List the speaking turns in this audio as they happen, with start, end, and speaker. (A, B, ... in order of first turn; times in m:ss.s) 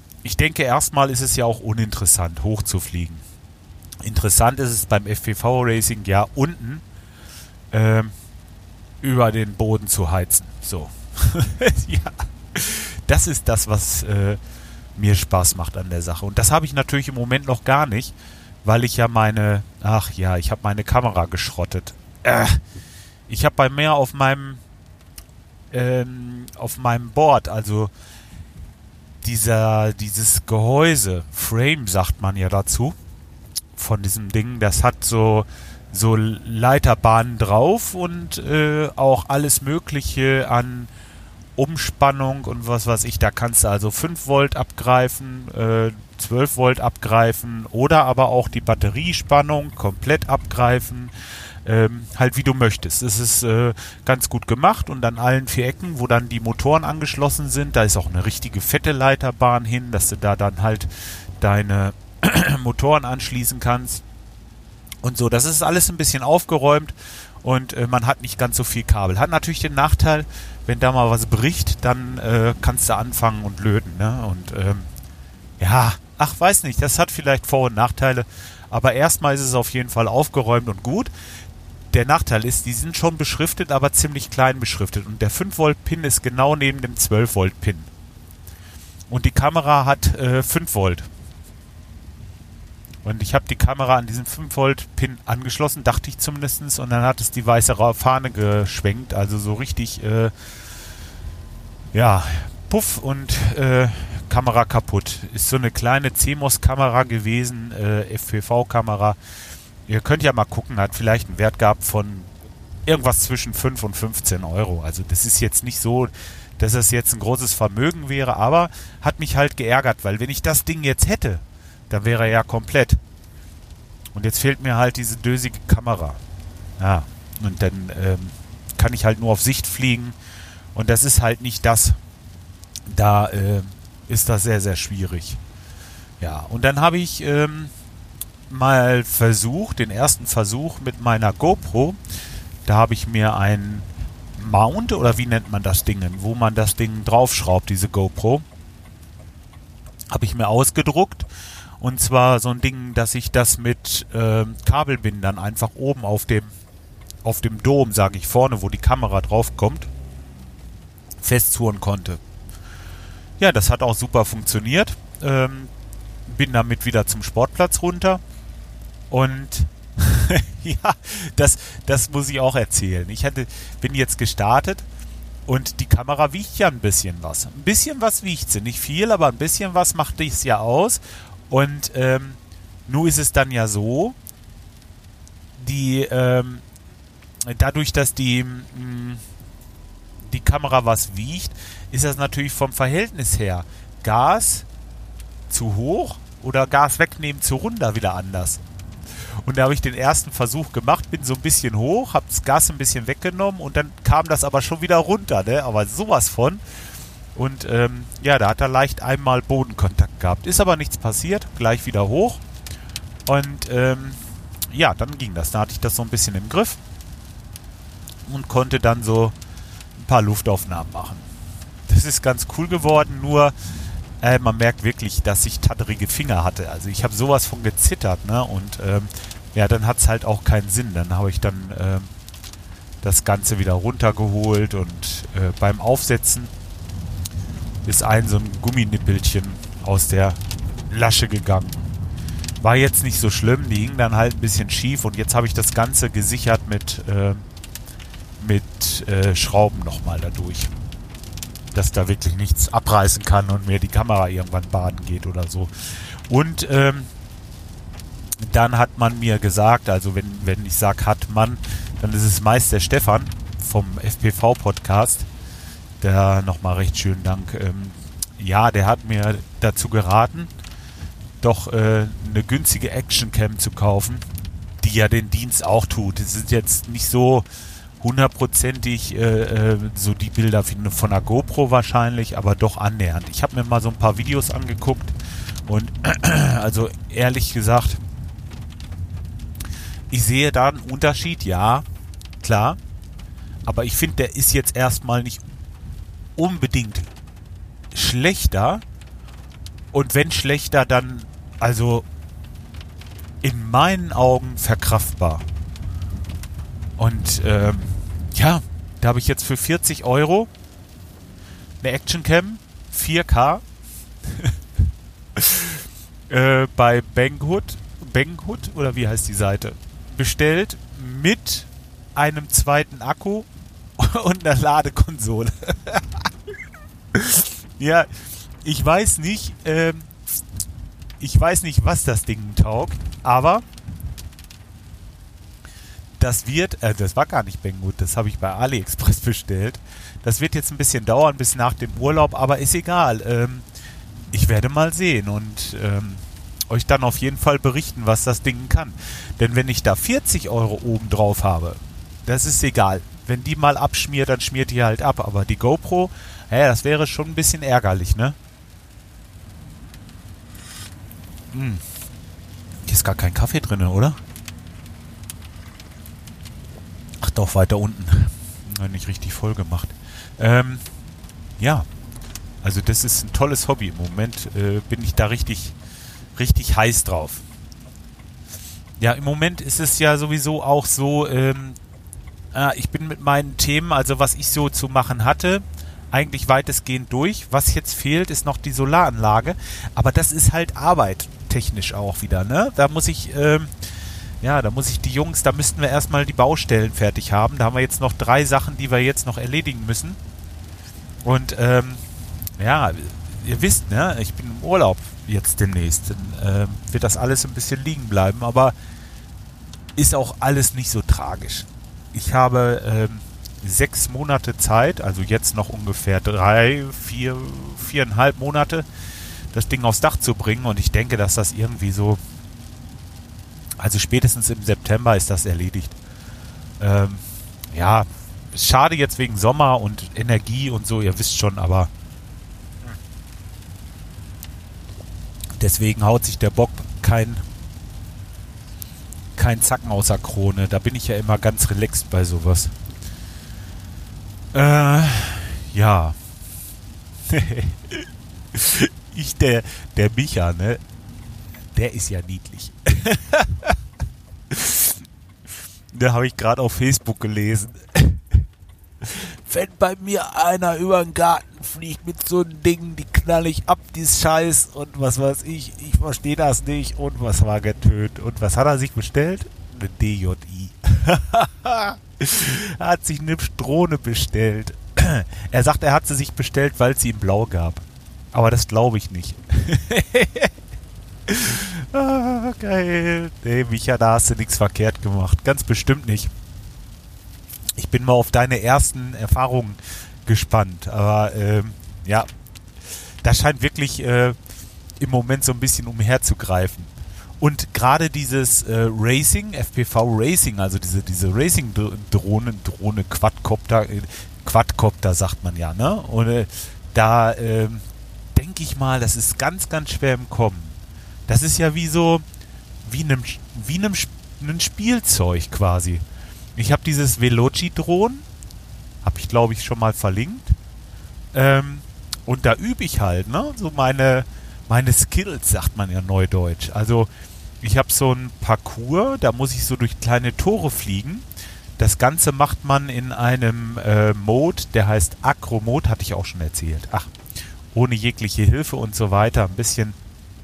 0:00.2-0:03.2 A
0:04.0-0:06.8 A
0:07.7-0:08.1 A
0:09.0-0:14.4 A
0:15.0-0:22.6 A
0:23.3-0:24.6 A
0:25.7-0:27.9 A
0:29.2-0:33.0 A
0:33.8-0:40.9 A
0:41.6-0:51.1 A
0:51.6-1:04.0 A
1:05.0-1:14.9 A
1:15.6-1:21.1 A
1:21.9-1:27.9 A
1:29.1-1:31.1 A
1:33.0-1:40.3 A
1:41.9-1:49.2 A
1:49.9-1:52.3 A
1:52.9-2:03.0 A
2:04.2-2:06.2 A
2:06.8-2:10.2 A
2:10.7-2:12.0 A
2:12.9-2:15.4 A
2:16.2-2:17.7 A
2:18.5-2:22.0 A
2:22.7-2:28.4 A
2:30.1-2:31.3 A
2:31.8-2:36.5 A
2:37.2-2:39.9 A
2:41.2-2:42.2 A
2:43.4-2:45.7 A
2:46.3-2:48.2 A
2:49.1-2:54.9 A
2:55.5-3:04.2 A
3:05.6-3:06.6 A
3:07.4-3:09.2 A
3:10.2-3:14.7 A
3:15.5-3:18.6 A
3:19.4-3:26.6 A
3:27.4-3:32.4 A
3:33.3-3:34.2 A
3:34.7-3:36.8 A
3:38.3-3:39.4 A
3:40.0-3:41.3 A
3:41.9-3:43.5 A
3:44.2-3:52.1 A
3:53.0-3:56.5 A
3:57.8-4:01.9 A
4:02.6-4:07.4 A
4:08.4-4:10.7 A
4:11.7-4:17.1 A
4:18.4-4:25.3 A
4:26.0-4:30.5 A
4:31.4-4:34.2 A
4:34.8-4:37.5 A
4:38.0-4:45.1 A
4:45.7-4:48.0 A
4:50.1-4:51.8 A
4:52.4-4:52.8 A
4:53.7-4:55.4 A
4:56.4-4:57.1 A
4:57.9-4:58.8 A
4:59.9-5:02.0 A
5:03.4-5:05.4 A
5:07.0-5:10.5 A
5:11.8-5:13.6 A
5:14.2-5:14.6 A
5:15.4-5:26.3 A
5:27.1-5:28.1 A
5:28.6-5:30.1 A
5:31.2-5:33.6 A
5:36.2-5:43.7 A
5:44.3-5:58.4 A
6:01.5-6:01.8 A
6:02.9-6:04.2 A
6:07.2-6:10.8 A
6:11.6-6:11.9 A
6:12.6-6:15.8 A
6:16.4-6:17.4 A
6:19.0-6:21.8 A
6:22.5-6:33.7 A
6:34.4-6:40.2 A
6:41.2-6:42.0 A
6:42.6-6:48.8 A
6:50.0-6:58.9 A
6:59.5-7:02.2 A
7:03.8-7:06.0 A
7:06.8-7:11.9 A
7:15.6-7:17.4 A
7:19.4-7:22.7 A
7:24.5-7:26.2 A
7:27.3-7:30.8 A
7:31.7-7:33.8 A
7:34.5-7:35.0 A
7:35.9-7:38.4 A
7:39.0-8:00.6 A
8:01.3-8:06.3 A
8:07.8-8:12.3 A
8:13.2-8:14.4 A
8:15.0-8:30.8 A
8:31.3-8:32.2 A
8:32.8-8:36.0 A
8:36.6-8:38.2 A
8:39.0-8:40.6 A
8:41.3-8:51.3 A
8:51.8-8:57.1 A
8:57.7-9:00.0 A